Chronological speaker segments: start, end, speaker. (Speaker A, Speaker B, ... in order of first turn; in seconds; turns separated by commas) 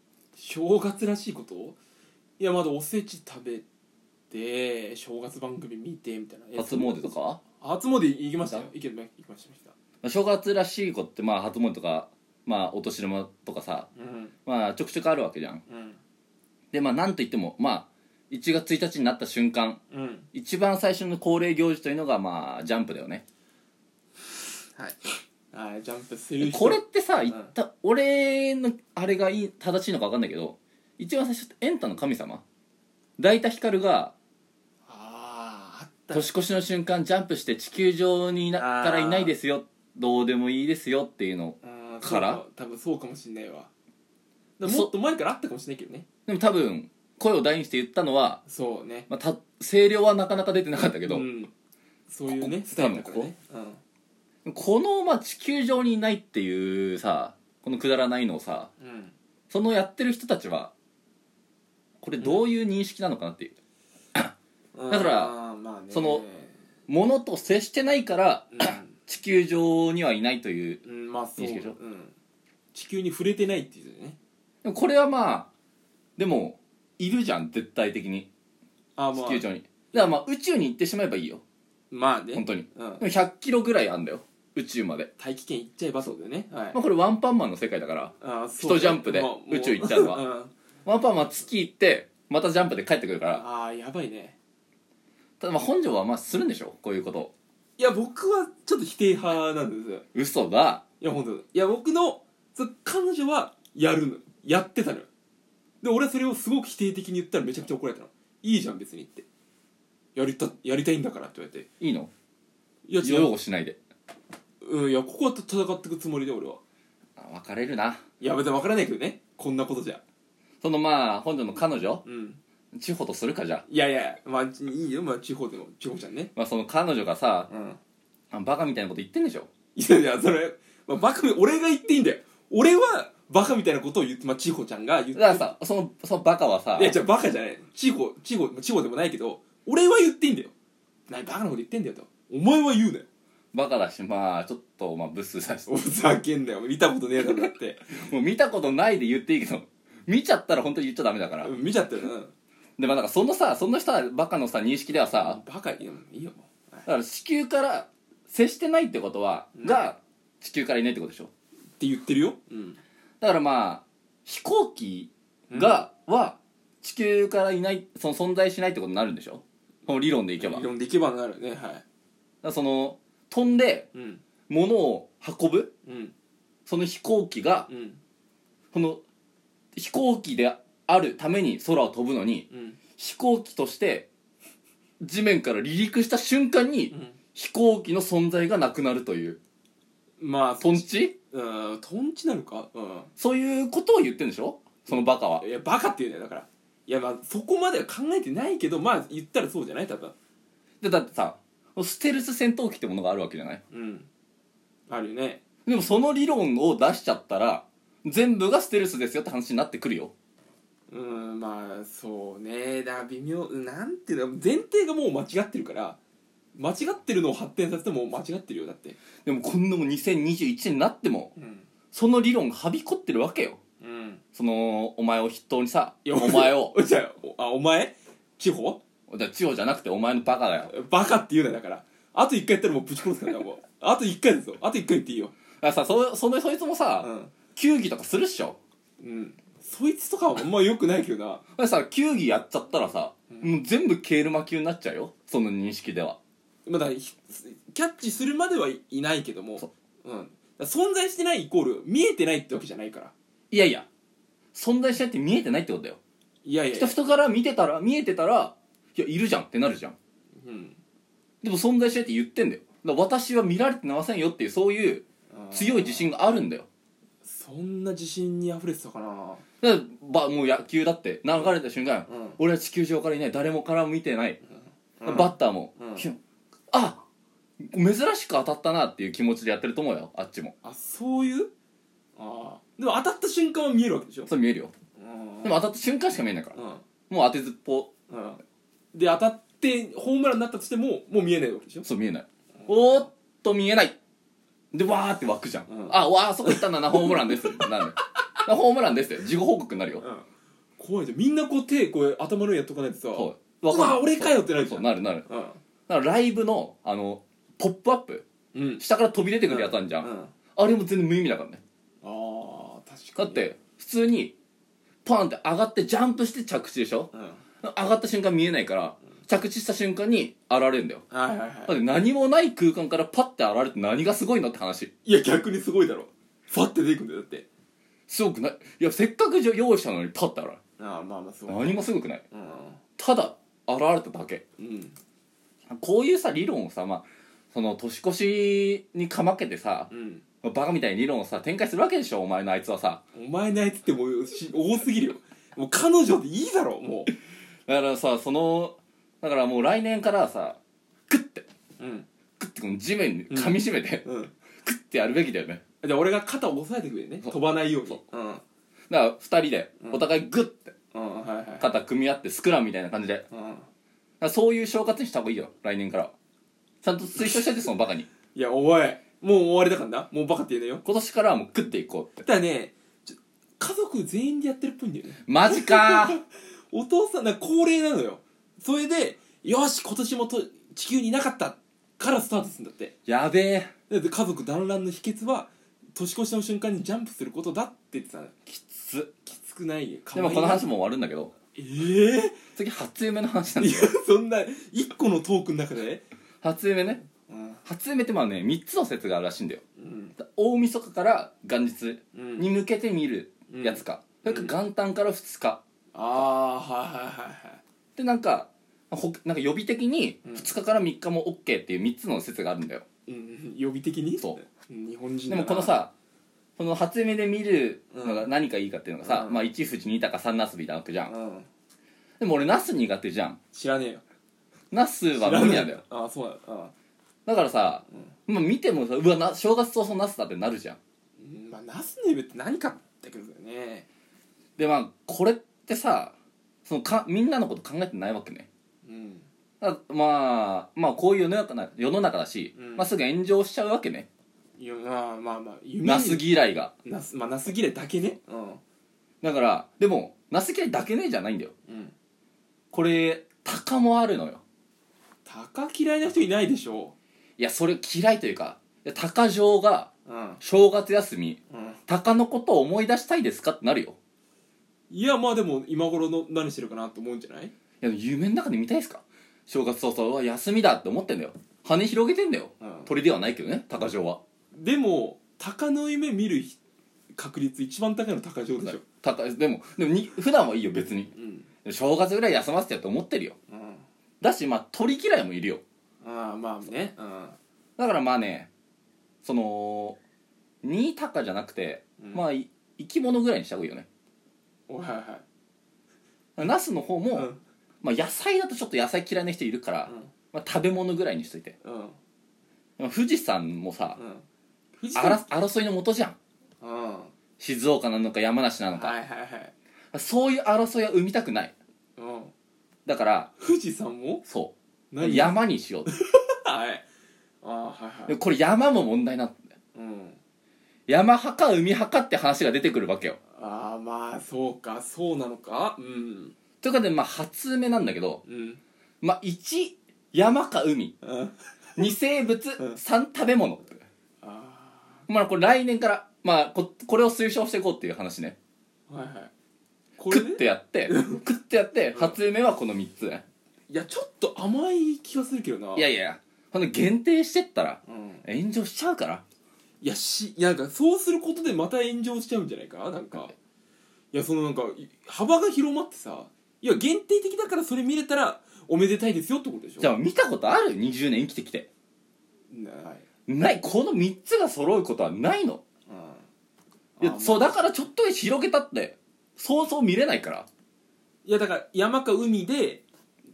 Speaker A: 0.3-1.8, Speaker A: 2.4-3.6, Speaker A: 4.3-9.7, Speaker B: 6.6-7.4, Speaker B: 10.0-13.9, Speaker A: 13.9-14.3, Speaker B: 14.4-15.6, Speaker A: 15.7-16.0, Speaker B: 16.7-19.8, Speaker A: 19.9-20.3, Speaker B: 20.3-23.2, Speaker A: 24.8-27.5, Speaker B: 26.4-32.4, Speaker B: 33.2-34.1, Speaker A: 34.9-36.3, Speaker B: 36.1-42.4, Speaker A: 38.5-39.4, Speaker A: 41.6-43.7, Speaker A: 44.6-46.0, Speaker B: 44.6-44.9, Speaker B: 46.3-48.4, Speaker A: 48.5-49.1, Speaker B: 49.1-51.3, Speaker A: 51.0-51.5, Speaker A: 52.1-53.8, Speaker B: 52.3-53.3, Speaker B: 54.4-58.7, Speaker A: 58.8-59.1, Speaker B: 59.5-60.7, Speaker B: 62.0-63.5, Speaker A: 62.2-62.4, Speaker A: 64.7-66.5, Speaker B: 64.9-65.3, Speaker B: 65.9-66.2, Speaker B: 66.9-70.8, Speaker A: 68.5-68.9, Speaker A: 70.8-72.1, Speaker B: 71.4-71.8, Speaker A: 72.7-74.2, Speaker B: 74.6-75.5, Speaker B: 76.2-78.3, Speaker A: 79.0-80.1, Speaker B: 79.1-81.4, Speaker A: 81.9-83.0, Speaker B: 82.3-85.1, Speaker A: 85.2-86.8, Speaker B: 86.7-90.2, Speaker A: 88.2-90.5, Speaker B: 90.8-93.4, Speaker A: 93.3-94.3, Speaker B: 95.4-97.3, Speaker A: 97.8-100.0, Speaker B: 100.1-100.8, Speaker A: 101.0-105.1, Speaker A: 105.8-109.2, Speaker A: 110.1-111.7, Speaker B: 111.8-112.1, Speaker A: 112.8-113.3, Speaker B: 113.0-113.8, Speaker A: 114.6-116.6, Speaker B: 117.2-118.0, Speaker A: 118.2-120.0, Speaker B: 120.6-122.0, Speaker A: 122.0-122.4, Speaker B: 122.7-123.6, Speaker A: 123.7-126.3, Speaker B: 126.3-127.5, Speaker A: 127.5-127.8, Speaker B: 128.3-129.5, Speaker A: 129.7-135.5, Speaker B: 135.1-137.0, Speaker A: 136.7-140.5, Speaker A: 141.1-143.1, Speaker B: 143.5-145.8, Speaker A: 145.7-147.9, Speaker B: 147.9-151.5, Speaker A: 151.4-152.3, Speaker B: 152.8-155.4, Speaker A: 154.9-156.9, Speaker B: 156.8-161.3, Speaker A: 159.6-159.9, Speaker A: 161.8-162.8, Speaker B: 163.2-170.6, Speaker A: 165.5-165.8, Speaker A: 170.4-171.8, Speaker B: 172.4-173.9, Speaker A: 173.9-174.2, Speaker B: 174.5-175.7, Speaker A: 175.8-176.1, Speaker B: 176.7-177.7, Speaker A: 177.7-178.0, Speaker B: 178.7-179.0, Speaker B: 179.7-182.4, Speaker A: 182.5-182.8, Speaker B: 183.0-184.1, Speaker B: 185.0-189.4, Speaker A: 186.9-187.2, Speaker A: 190.2-193.1, Speaker B: 190.6-191.1, Speaker B: 193.2-195.4, Speaker A: 194.9-200.1, Speaker B: 200.8-203.6, Speaker A: 203.7-204.1, Speaker A: 204.9-205.4, Speaker B: 205.7-210.1, Speaker A: 210.9-216.0, Speaker A: 216.5-219.0, Speaker B: 219.2-221.3, Speaker A: 221.3-221.7, Speaker B: 221.9-223.6, Speaker A: 223.8-224.2, Speaker B: 224.3-226.8, Speaker A: 226.0-228.8, Speaker B: 229.1-230.7, Speaker A: 230.7-235.3, Speaker B: 235.6-238.6, Speaker A: 237.0-237.3, Speaker A: 239.0-241.4, Speaker B: 241.6-246.2, Speaker A: 246.7-253.1, Speaker B: 253.5-253.8, Speaker B: 254.5-256.0, Speaker A: 256.4-257.0, Speaker B: 256.7-259.9, Speaker A: 260.4-260.8, Speaker B: 261.4-266.7, Speaker A: 265.3-266.1, Speaker A: 267.2-269.4, Speaker B: 269.6-274.4, Speaker A: 272.1-272.4, Speaker A: 275.0-276.1, Speaker B: 275.0-276.2, Speaker B: 276.7-277.0, Speaker B: 277.6-280.5, Speaker A: 280.6-281.5, Speaker A: 282.1-284.3, Speaker B: 284.3-284.7, Speaker A: 285.0-285.6, Speaker B: 285.4-286.6, Speaker A: 286.5-286.8, Speaker B: 287.1-287.9, Speaker A: 288.1-288.4, Speaker A: 288.9-291.9, Speaker B: 291.8-293.9, Speaker B: 294.7-300.1, Speaker A: 295.7-297.8, Speaker A: 300.0-300.3, Speaker A: 300.8-305.6, Speaker B: 303.1-305.3, Speaker B: 305.9-308.2, Speaker A: 308.5-308.8, Speaker B: 308.8-311.6, Speaker A: 309.5-310.3, Speaker A: 312.0-313.5, Speaker B: 313.2-314.3, Speaker B: 315.0-317.1, Speaker A: 317.1-317.4, Speaker B: 317.6-321.0, Speaker A: 321.1-321.8, Speaker B: 321.7-324.9, Speaker A: 325.0-327.4, Speaker B: 328.1-330.6, Speaker A: 330.8-332.8, Speaker B: 331.5-332.2, Speaker B: 333.0-334.4, Speaker A: 334.6-334.9, Speaker B: 335.7-339.9, Speaker A: 339.9-340.2, Speaker B: 340.4-343.0, Speaker A: 343.1-347.1, Speaker B: 347.7-350.6, Speaker B: 351.1-351.5, Speaker A: 351.8-352.1, Speaker B: 352.4-354.0, Speaker A: 353.3-354.3, Speaker B: 354.6-355.6, Speaker A: 355.8-358.4, Speaker B: 358.9-360.7, Speaker A: 360.9-361.7, Speaker B: 361.6-363.2, Speaker A: 363.3-363.7, Speaker B: 364.2-366.1, Speaker B: 366.8-368.1, Speaker A: 367.1-367.5, Speaker A: 368.3-370.8, Speaker B: 370.8-372.2, Speaker A: 372.2-382.9, Speaker B: 375.2-376.2, Speaker B: 383.1-383.7, Speaker A: 383.9-388.4, Speaker B: 388.5-389.1, Speaker A: 389.2-390.7, Speaker B: 390.1-391.3, Speaker A: 391.5-392.4, Speaker B: 392.5-393.9, Speaker A: 393.6-396.0, Speaker B: 396.4-397.1, Speaker A: 397.3-397.6, Speaker B: 397.6-399.6, Speaker A: 399.8-400.2, Speaker B: 400.2-405.6, Speaker A: 402.1-402.5, Speaker A: 403.5-404.5, Speaker A: 405.9-407.6, Speaker B: 407.9-412.8, Speaker A: 410.2-410.5, Speaker A: 413.1-415.8, Speaker B: 415.3-415.9, Speaker B: 416.6-421.1, Speaker A: 417.9-418.3, Speaker A: 419.0-419.4, Speaker A: 421.1-421.5, Speaker B: 422.2-423.4, Speaker A: 423.5-424.0, Speaker B: 424.7-425.8, Speaker A: 425.1-426.7, Speaker B: 427.2-430.8, Speaker A: 431.2-433.9, Speaker B: 434.6-438.5, Speaker A: 438.8-439.2, Speaker B: 439.6-444.1, Speaker A: 442.6-442.9, Speaker A: 444.6-446.2, Speaker B: 445.8-446.7, Speaker A: 446.8-448.6, Speaker B: 449.2-451.5, Speaker A: 451.7-451.9, Speaker B: 452.7-454.4, Speaker A: 455.2-456.9, Speaker B: 457.4-459.9, Speaker A: 460.1-460.4, Speaker B: 460.4-463.9, Speaker A: 461.5-461.8, Speaker A: 464.9-467.5, Speaker B: 467.8-474.2, Speaker A: 472.6-472.9, Speaker A: 474.5-476.6, Speaker A: 477.1-478.8, Speaker B: 478.6-481.1, Speaker A: 481.1-481.5, Speaker B: 481.6-483.4, Speaker A: 483.5-483.8, Speaker B: 484.2-485.6, Speaker A: 486.0-487.4, Speaker B: 487.8-488.5, Speaker B: 489.2-490.0, Speaker B: 490.6-493.9, Speaker A: 492.0-492.2, Speaker A: 494.7-495.2, Speaker B: 496.4-497.3, Speaker A: 497.1-497.4, Speaker B: 497.8-501.6, Speaker A: 499.8-500.1, Speaker A: 501.6-502.0, Speaker B: 502.8-504.0, Speaker A: 503.9-504.2, Speaker A: 504.8-505.2, Speaker B: 504.9-506.1, Speaker A: 506.6-507.1, Speaker B: 507.4-508.9, Speaker A: 508.7-509.5, Speaker B: 509.9-511.5, Speaker A: 512.0-512.3, Speaker B: 512.9-513.3, Speaker A: 513.4-514.2, Speaker B: 514.2-515.9, Speaker A: 514.9-516.8, Speaker A: 517.4-518.2, Speaker B: 518.1-519.4, Speaker A: 519.7-520.2, Speaker B: 520.9-523.2, Speaker A: 523.3-526.3, Speaker B: 526.6-528.2, Speaker A: 528.2-528.6, Speaker B: 529.0-531.0, Speaker A: 531.0-531.9, Speaker B: 531.8-533.8, Speaker A: 534.2-535.1, Speaker B: 535.1-538.4, Speaker A: 538.9-539.3, Speaker A: 540.0-541.2, Speaker B: 540.1-543.2, Speaker A: 543.7-545.9, Speaker B: 545.8-549.2, Speaker A: 547.9-548.2, Speaker A: 549.8-553.3, Speaker A: 554.1-559.9, Speaker B: 559.8-561.7, Speaker A: 562.5-563.0, Speaker B: 563.3-565.6, Speaker A: 565.9-566.2, Speaker A: 567.0-567.7, Speaker B: 567.0-570.5, Speaker A: 571.2-572.8